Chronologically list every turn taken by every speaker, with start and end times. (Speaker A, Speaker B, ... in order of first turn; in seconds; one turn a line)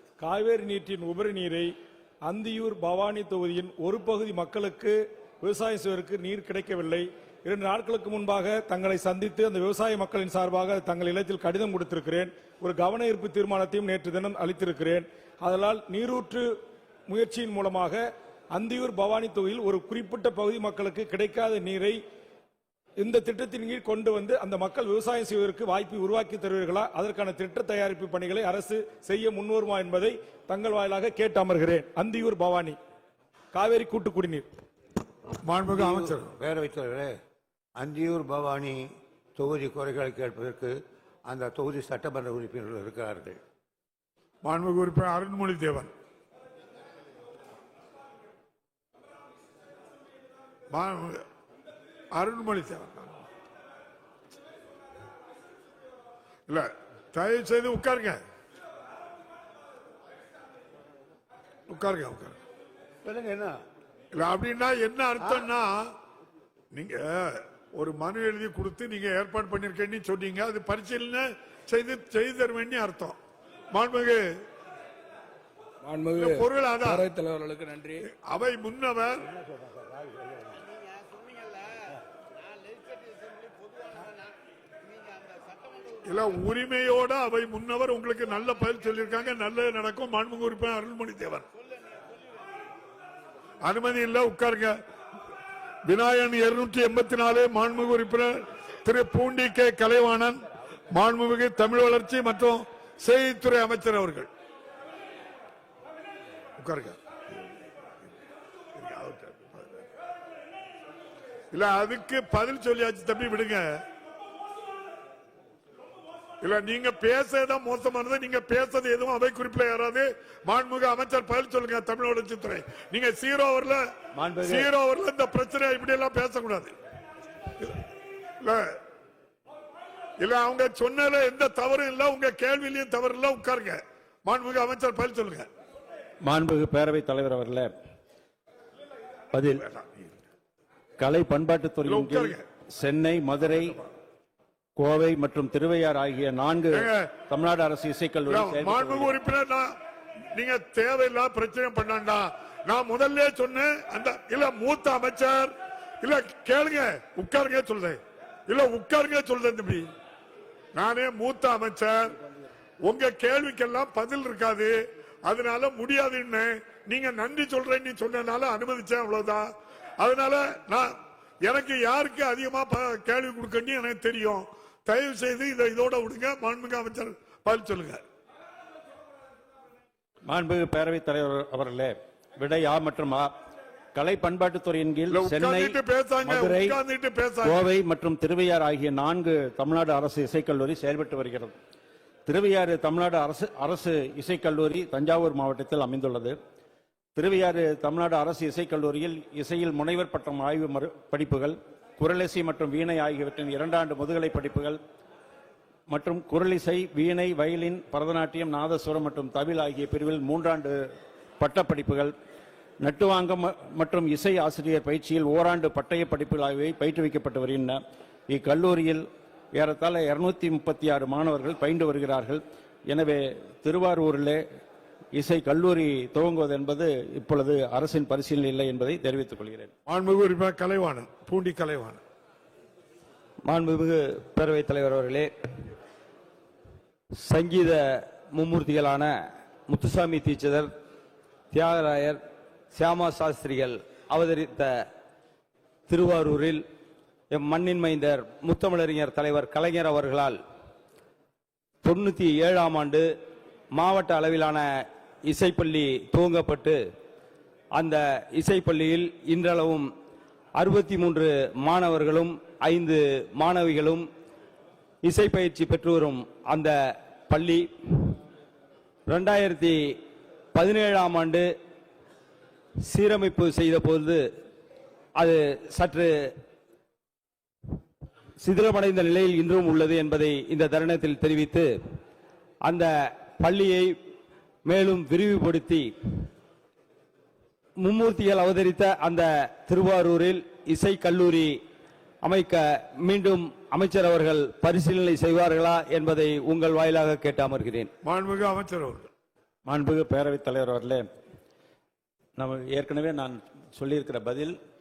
Speaker A: 0.2-1.7
Speaker A: 2.3-16.5
Speaker A: 17.1-22.0
Speaker A: 23.0-32.8
Speaker A: 33.5-34.5
Speaker B: 35.4-36.3
Speaker C: 35.7-37.1
Speaker C: 37.8-43.4
Speaker B: 44.4-45.9
Speaker B: 50.7-51.2
Speaker B: 52.1-53.2
Speaker B: 56.5-58.2
Speaker B: 61.7-62.4
Speaker C: 63.0-63.6
Speaker B: 64.1-65.9
Speaker C: 65.2-65.5
Speaker B: 66.7-73.2
Speaker B: 73.7-74.2
Speaker D: 75.8-78.0
Speaker B: 76.1-77.1
Speaker B: 78.0-79.3
Speaker B: 86.0-91.5
Speaker B: 93.6-94.7
Speaker B: 95.8-104.3
Speaker B: 106.6-107.0
Speaker B: 108.7-109.8
Speaker B: 111.5-113.8
Speaker B: 116.4-123.8
Speaker E: 124.1-124.7
Speaker B: 124.4-126.7
Speaker B: 128.4-128.7
Speaker B: 130.2-135.5
Speaker E: 136.2-137.7
Speaker E: 139.3-139.6
Speaker B: 139.5-140.1
Speaker E: 141.0-143.8
Speaker B: 141.9-142.4
Speaker E: 144.8-149.2
Speaker B: 146.7-147.1
Speaker B: 148.3-149.7
Speaker B: 150.3-159.9
Speaker B: 160.7-162.2
Speaker B: 162.8-178.0
Speaker E: 180.3-183.3
Speaker E: 183.9-186.8
Speaker B: 185.1-187.7
Speaker E: 187.4-191.5
Speaker E: 192.3-196.3
Speaker E: 197.2-204.8
Speaker E: 205.9-210.8
Speaker E: 211.4-212.1
Speaker E: 212.8-217.8
Speaker E: 218.3-219.0
Speaker E: 219.6-224.4
Speaker E: 225.1-229.7
Speaker B: 229.9-232.0
Speaker F: 233.4-235.7
Speaker F: 237.2-239.1
Speaker F: 239.7-240.7
Speaker F: 241.5-242.2
Speaker F: 242.7-244.7
Speaker F: 245.9-246.6
Speaker F: 247.3-250.4
Speaker F: 251.8-253.1
Speaker F: 253.7-254.7
Speaker F: 255.3-256.8
Speaker F: 257.7-259.9
Speaker F: 260.6-264.1
Speaker F: 265.0-266.7
Speaker F: 267.3-268.2
Speaker F: 269.1-270.0
Speaker F: 270.5-271.5
Speaker F: 272.9-274.2
Speaker F: 275.2-276.3
Speaker F: 278.4-281.7
Speaker F: 282.6-283.9
Speaker F: 284.6-286.2
Speaker F: 287.8-291.5
Speaker F: 292.2-297.9
Speaker B: 298.0-299.1
Speaker E: 299.7-301.0
Speaker E: 302.4-304.5